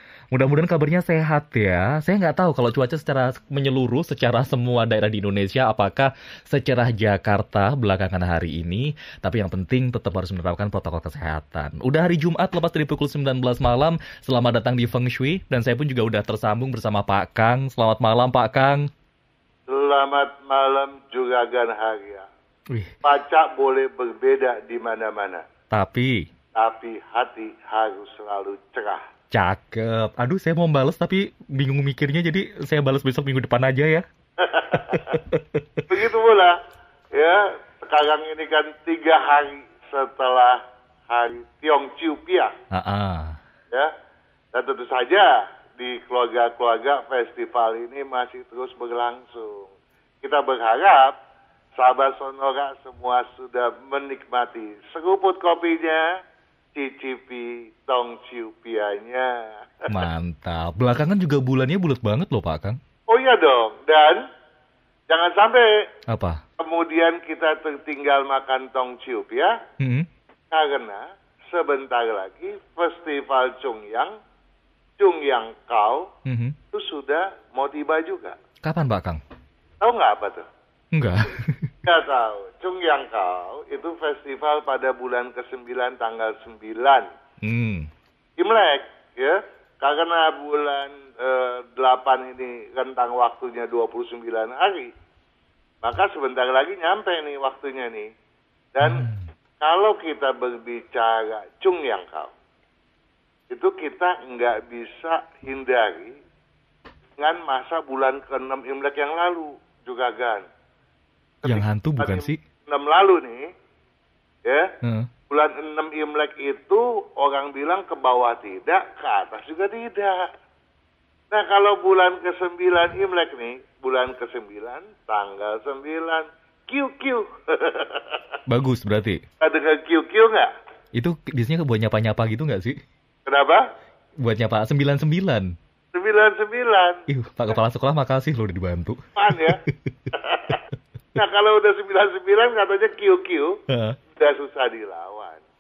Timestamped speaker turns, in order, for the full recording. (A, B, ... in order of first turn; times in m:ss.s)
0:00.3-0:18.9 A
0:19.7-0:22.3 B
0:23.0-0:25.4 B
0:25.7-0:26.2 A
0:26.6-0:29.0 B
0:29.3-0:34.0 A
0:34.4-0:35.2 B
0:34.7-0:35.9 A
0:35.9-0:36.6 B
0:37.2-0:42.5 B
0:42.7-0:43.4 A
0:44.5-0:49.7 B
0:50.2-0:51.2 B
0:51.8-0:56.1 B
0:56.8-1:00.1 B
0:59.9-1:02.8 A
1:03.1-1:04.2 B
1:05.1-1:05.7 B
1:06.1-1:06.4 A
1:06.6-1:09.5 B
1:09.8-1:10.1 A
1:10.5-1:14.1 B
1:15.0-1:16.1 B
1:16.3-1:16.6 A
1:16.7-1:18.4 B
1:18.6-1:19.2 A
1:19.8-1:20.4 B
1:20.9-1:21.7 A
1:21.8-1:27.1 B
1:27.4-1:27.9 A
1:28.4-1:34.9 B
1:35.8-1:38.1 B
1:38.8-1:39.0 B
1:38.8-1:39.3 A
1:39.6-1:42.3 B
1:43.5-1:46.1 B
1:47.2-1:50.4 B
1:51.4-1:53.4 B
1:51.4-1:52.4 A
1:54.8-1:55.1 A
1:55.3-2:00.3 B
2:01.3-2:08.2 B
2:08.5-2:09.2 A
2:09.4-2:10.5 B
2:10.9-2:12.8 A
2:13.2-2:13.6 B
2:14.2-2:15.5 A
2:15.9-2:17.0 B
2:17.1-2:20.0 A
2:19.2-2:19.6 B
2:20.1-2:20.6 B
2:21.2-2:23.5 B
2:23.7-2:24.0 A
2:24.2-2:25.4 B